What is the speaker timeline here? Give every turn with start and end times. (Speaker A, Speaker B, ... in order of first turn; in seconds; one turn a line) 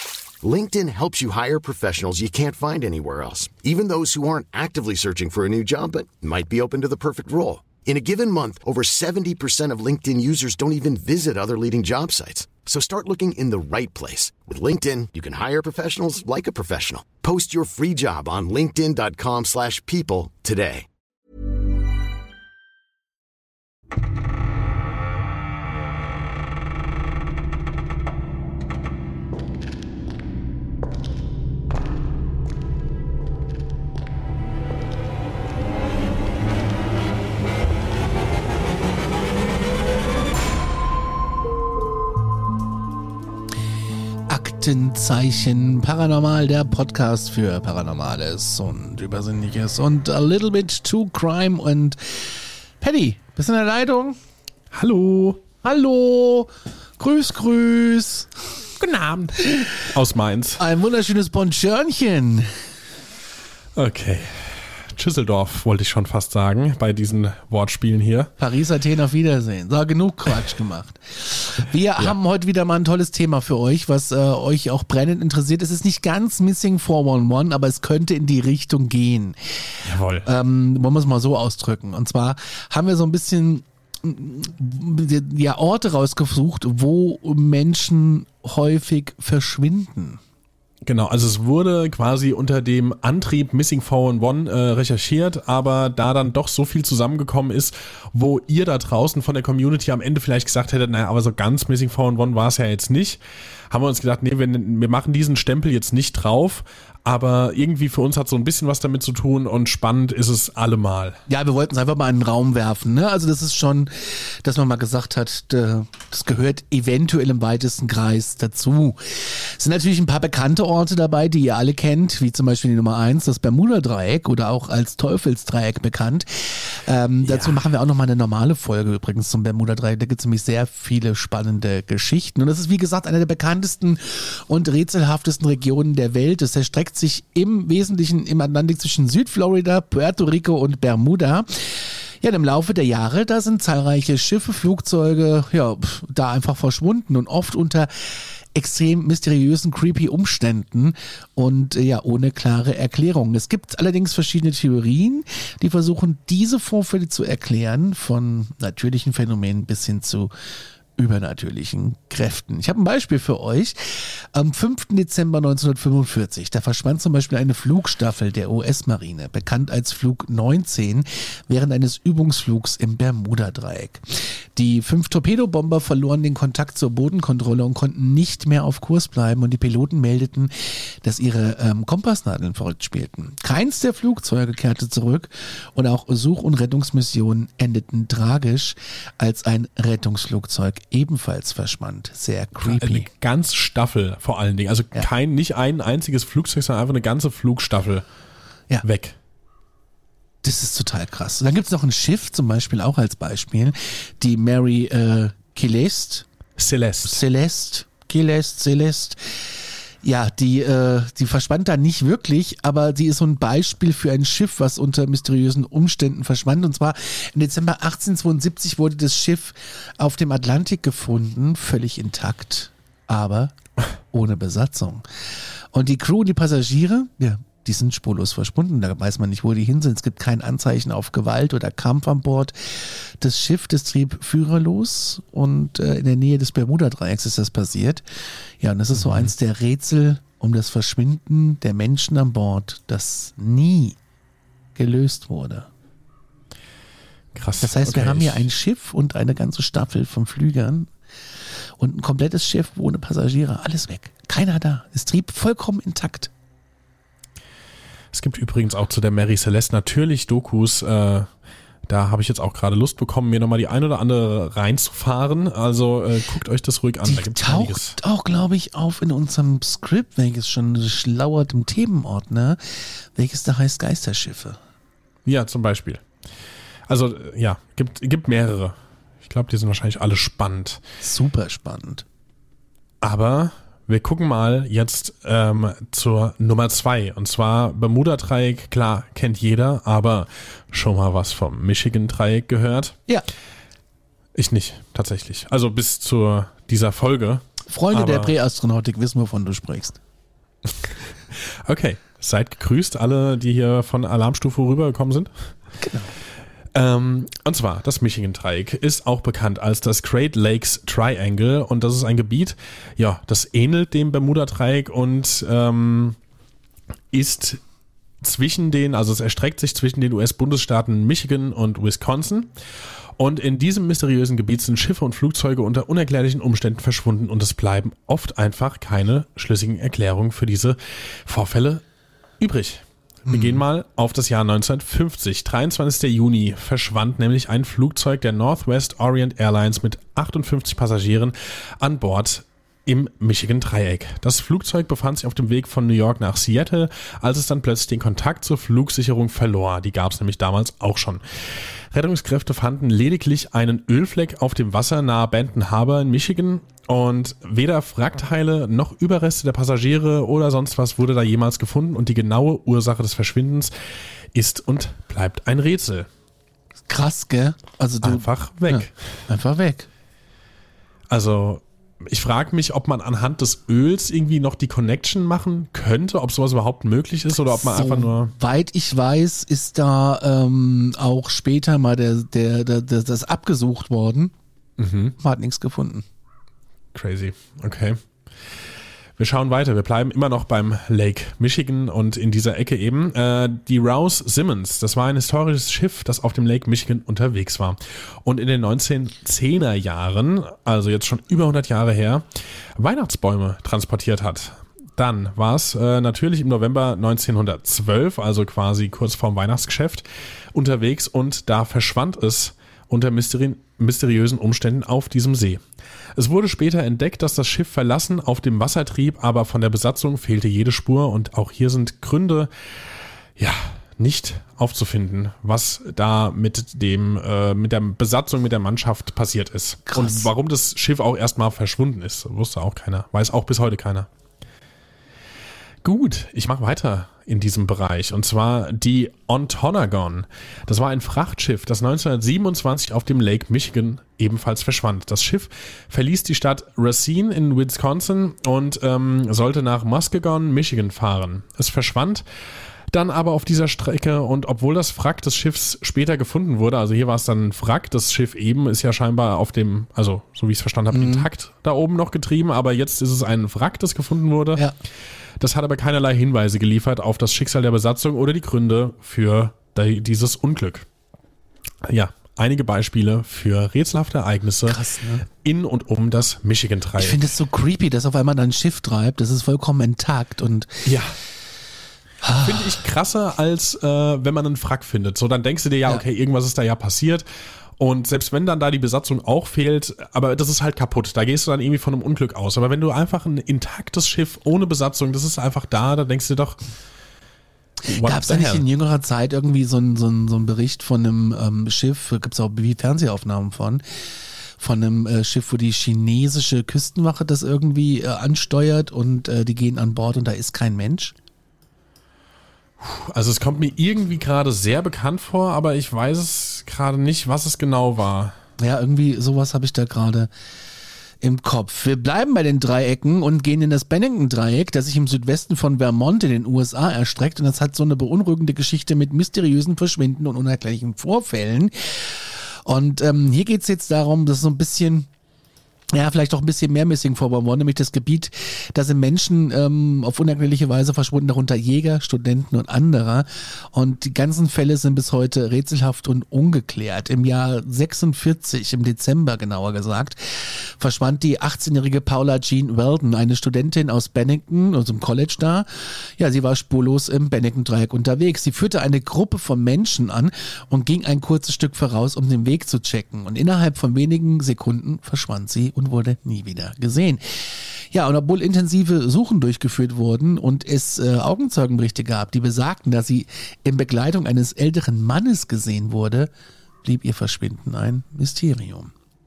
Speaker A: 0.4-20.9
Speaker B: 44.3-54.2
Speaker C: 54.7-55.4
Speaker B: 55.6-58.3
Speaker C: 58.8-60.6
Speaker B: 60.6-62.5
Speaker C: 63.7-68.3
Speaker B: 68.4-79.4
Speaker C: 79.8-80.3
Speaker B: 80.2-90.2
Speaker C: 90.8-111.2
Speaker B: 111.3-160.3
Speaker C: 127.2-127.6
Speaker B: 161.0-193.1
Speaker C: 192.6-198.0
Speaker C: 198.8-199.2
Speaker B: 200.4-206.2
Speaker C: 206.6-207.2
Speaker B: 207.0-223.5
Speaker B: 224.1-225.0
Speaker B: 225.7-238.0
Speaker B: 238.6-244.0
Speaker C: 239.0-239.3
Speaker B: 244.8-245.7
Speaker C: 247.3-248.5
Speaker B: 247.6-250.9
Speaker B: 251.8-256.3
Speaker C: 258.1-261.3
Speaker C: 261.9-268.0
Speaker B: 267.0-274.6
Speaker C: 275.2-276.0
Speaker C: 276.9-280.8
Speaker B: 281.0-282.0
Speaker C: 283.0-293.0
Speaker C: 294.3-298.3
Speaker B: 297.6-300.0
Speaker C: 300.7-305.5
Speaker B: 305.8-306.1
Speaker C: 306.7-316.2
Speaker C: 317.1-317.6
Speaker C: 318.2-322.5
Speaker C: 323.2-331.8
Speaker C: 332.4-363.7
Speaker B: 333.3-333.6
Speaker C: 364.3-366.1
Speaker B: 366.9-369.9
Speaker C: 368.0-369.1
Speaker C: 371.1-378.3
Speaker B: 377.5-384.3
Speaker C: 384.8-385.1
Speaker B: 385.2-386.0
Speaker C: 386.9-388.0
Speaker C: 389.2-415.6
Speaker C: 416.1-422.5
Speaker C: 423.4-434.1
Speaker B: 429.9-430.3
Speaker C: 435.8-452.2
Speaker C: 452.9-464.6
Speaker B: 460.9-461.3
Speaker C: 465.4-470.9
Speaker C: 471.8-477.3
Speaker B: 474.6-475.2
Speaker B: 477.0-480.9
Speaker C: 480.9-481.2
Speaker B: 482.2-482.8
Speaker C: 482.4-487.2
Speaker C: 487.8-496.6
Speaker B: 497.8-503.8
Speaker C: 497.9-498.6
Speaker B: 504.6-511.1
Speaker C: 512.8-518.4
Speaker B: 518.6-520.3
Speaker B: 521.2-535.1
Speaker B: 535.9-576.3
Speaker B: 576.8-578.9